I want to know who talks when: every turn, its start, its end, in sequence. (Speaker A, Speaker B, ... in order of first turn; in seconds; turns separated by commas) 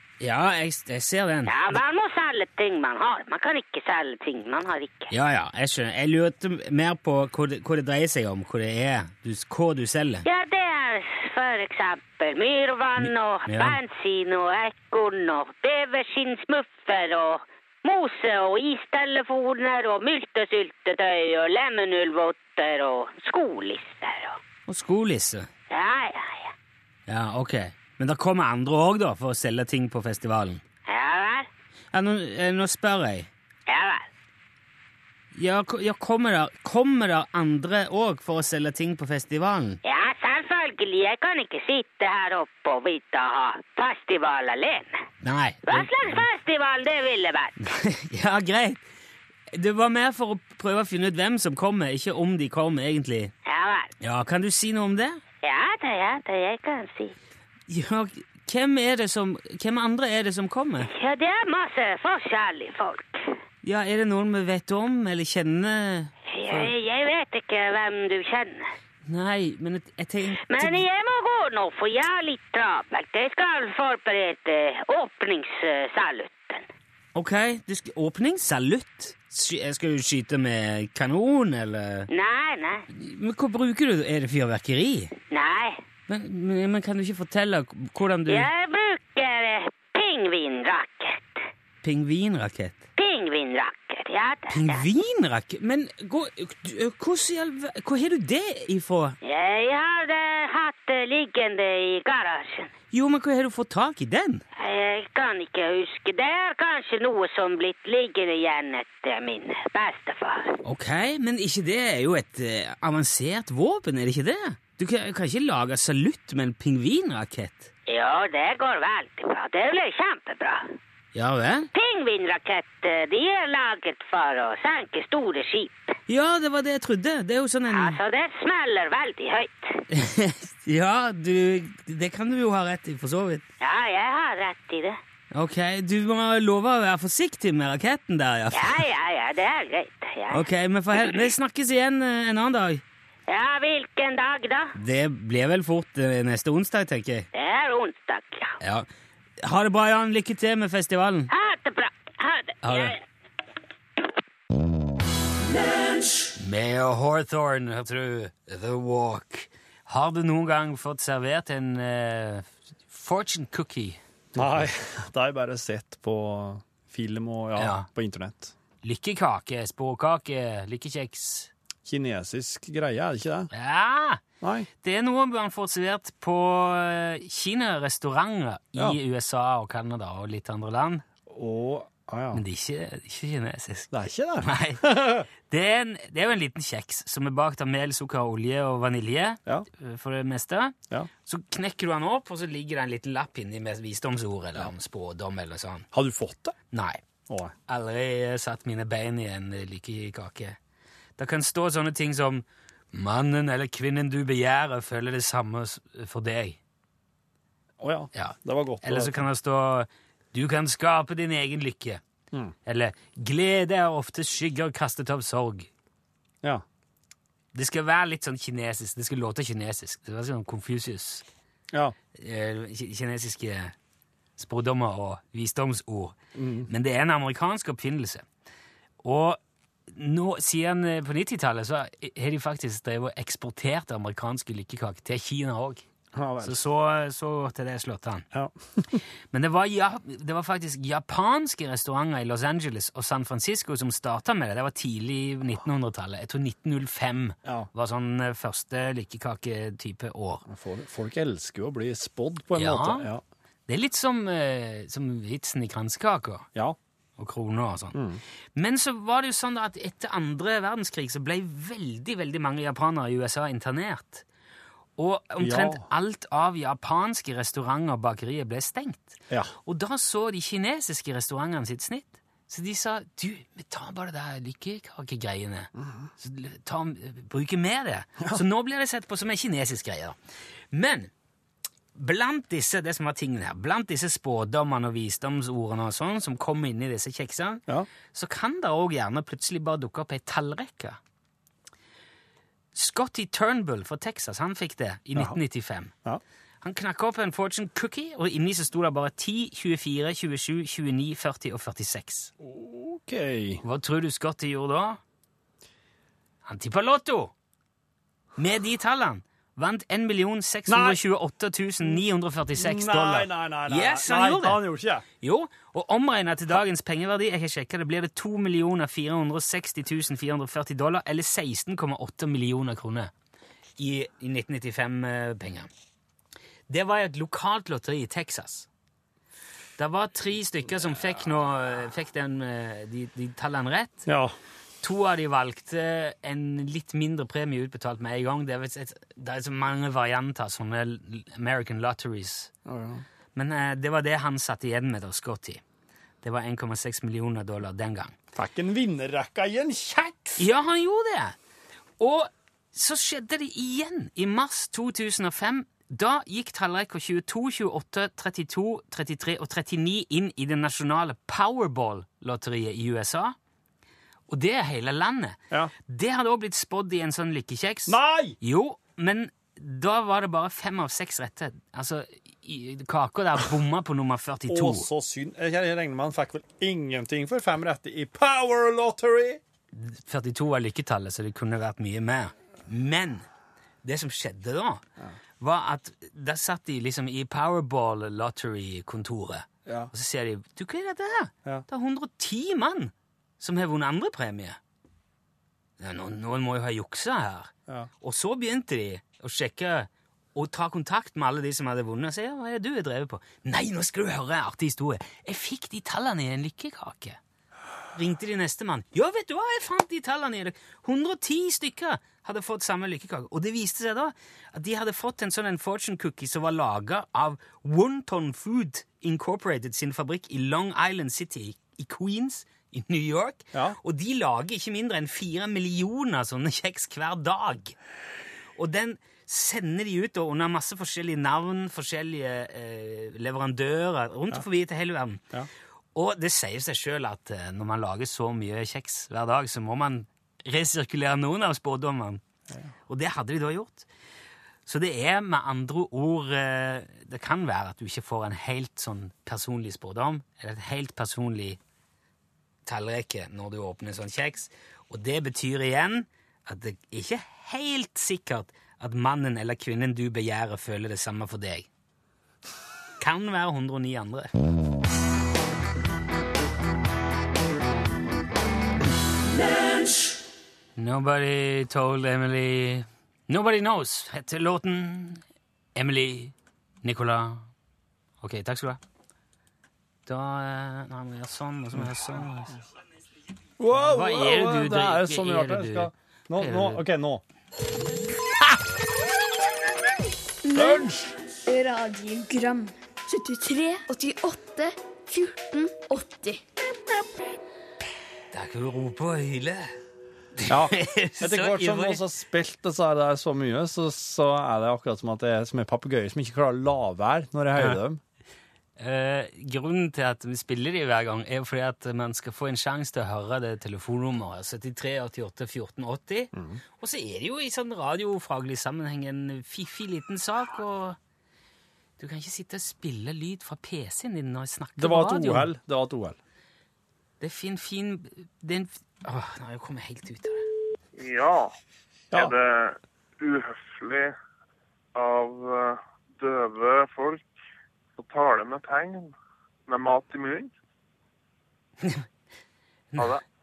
Speaker A: 0.2-1.8, Speaker B: 1.5-5.1, Speaker A: 5.1-10.2, Speaker B: 10.2-24.4, Speaker A: 13.0-13.8, Speaker A: 24.7-25.5, Speaker B: 25.7-26.5, Speaker A: 27.1-30.6, Speaker B: 30.9-31.5, Speaker A: 31.9-33.3, Speaker B: 33.7-34.1, Speaker A: 35.3-39.8, Speaker B: 39.8-45.0, Speaker A: 45.2-46.2, Speaker B: 45.7-47.6, Speaker A: 47.6-48.8, Speaker A: 49.5-53.3, Speaker B: 53.5-53.9, Speaker A: 54.0-55.2, Speaker B: 55.4-57.2, Speaker A: 57.7-60.9, Speaker B: 60.9-63.3, Speaker A: 63.6-66.7, Speaker B: 66.3-68.7, Speaker A: 69.1-70.8, Speaker B: 70.5-76.7, Speaker A: 77.2-82.1, Speaker B: 82.1-82.9, Speaker A: 82.9-85.1, Speaker B: 85.3-85.8, Speaker A: 86.1-88.5, Speaker B: 88.3-91.4, Speaker A: 91.8-92.8, Speaker B: 93.0-94.8, Speaker A: 94.5-99.2, Speaker B: 99.2-102.7, Speaker A: 102.9-104.4, Speaker B: 104.6-110.6, Speaker A: 110.6-117.7, Speaker B: 117.9-120.7, Speaker A: 121.1-121.7, Speaker B: 121.7-126.0, Speaker A: 126.1-128.0, Speaker B: 127.7-129.8, Speaker A: 129.9-133.4, Speaker B: 133.6-135.0, Speaker A: 135.3-138.8, Speaker B: 138.5-140.5, Speaker A: 140.3-142.8, Speaker B: 143.3-144.7, Speaker A: 144.8-147.3, Speaker B: 147.3-148.6, Speaker A: 148.6-148.9, Speaker A: 149.4-151.3, Speaker B: 151.3-153.0, Speaker A: 152.6-152.9, Speaker A: 156.4-164.7, Speaker C: 164.3-168.5, Speaker A: 167.6-167.9, Speaker A: 168.8-171.5, Speaker C: 171.8-173.5, Speaker A: 173.5-174.2, Speaker C: 174.4-174.7, Speaker A: 174.8-181.0, Speaker C: 181.3-182.4, Speaker A: 182.3-195.9, Speaker C: 183.9-185.3, Speaker C: 195.9-196.6, Speaker A: 196.7-197.0, Speaker A: 197.7-200.6, Speaker A: 201.2-206.6, Speaker C: 207.8-209.3, Speaker A: 208.1-212.0, Speaker A: 212.7-215.7, Speaker A: 217.5-221.2, Speaker A: 222.2-223.7, Speaker A: 224.4-228.3, Speaker C: 226.3-226.7, Speaker A: 229.0-235.8, Speaker C: 236.1-236.6, Speaker A: 236.4-238.3, Speaker C: 238.3-239.0, Speaker A: 239.3-250.4, Speaker C: 250.5-253.2, Speaker A: 252.6-253.1, Speaker A: 253.7-256.5, Speaker A: 257.2-258.0, Speaker C: 257.9-258.2, Speaker A: 258.6-264.2, Speaker A: 265.0-280.2, Speaker C: 265.4-265.9, Speaker C: 275.8-276.1, Speaker A: 280.7-281.1, Speaker A: 281.9-291.0, Speaker A: 292.7-295.9, Speaker A: 296.6-302.3, Speaker C: 302.4-303.6, Speaker A: 303.6-305.0, Speaker A: 306.4-307.3, Speaker A: 308.4-314.7, Speaker C: 310.7-311.0, Speaker C: 312.6-315.1, Speaker A: 315.2-323.1, Speaker A: 323.8-325.7, Speaker A: 326.7-328.7, Speaker A: 329.8-334.1, Speaker C: 334.1-334.3, Speaker A: 334.8-342.5, Speaker C: 342.7-343.0, Speaker A: 343.4-345.6, Speaker A: 346.2-348.2, Speaker C: 348.4-350.5, Speaker A: 350.4-351.4, Speaker A: 352.0-363.4, Speaker A: 364.3-374.9, Speaker C: 367.9-368.4, Speaker C: 374.5-379.4, Speaker A: 379.7-383.3, Speaker A: 383.8-384.8, Speaker A: 385.4-394.6, Speaker C: 389.7-389.9, Speaker A: 395.8-407.2, Speaker A: 407.9-427.8, Speaker A: 428.6-435.2, Speaker A: 435.9-442.2, Speaker A: 442.9-443.9, Speaker A: 444.7-451.6, Speaker A: 452.7-461.7, Speaker A: 463.0-464.3, Speaker A: 470.8-475.2, Speaker A: 475.8-477.5, Speaker A: 478.2-478.8, Speaker A: 480.1-482.6, Speaker C: 483.6-487.2, Speaker A: 483.8-486.9, Speaker D: 490.4-490.9, Speaker C: 490.5-491.1, Speaker D: 491.5-496.4, Speaker A: 498.3-499.8, Speaker A: 500.4-502.0, Speaker C: 500.5-508.0, Speaker A: 508.8-521.0, Speaker C: 516.3-516.6, Speaker A: 522.0-525.5, Speaker C: 524.8-526.2, Speaker A: 527.2-530.4, Speaker E: 531.0-531.5, Speaker E: 532.1-534.1, Speaker E: 535.0-537.2, Speaker E: 538.0-539.1, Speaker E: 539.7-540.5, Speaker A: 542.9-543.2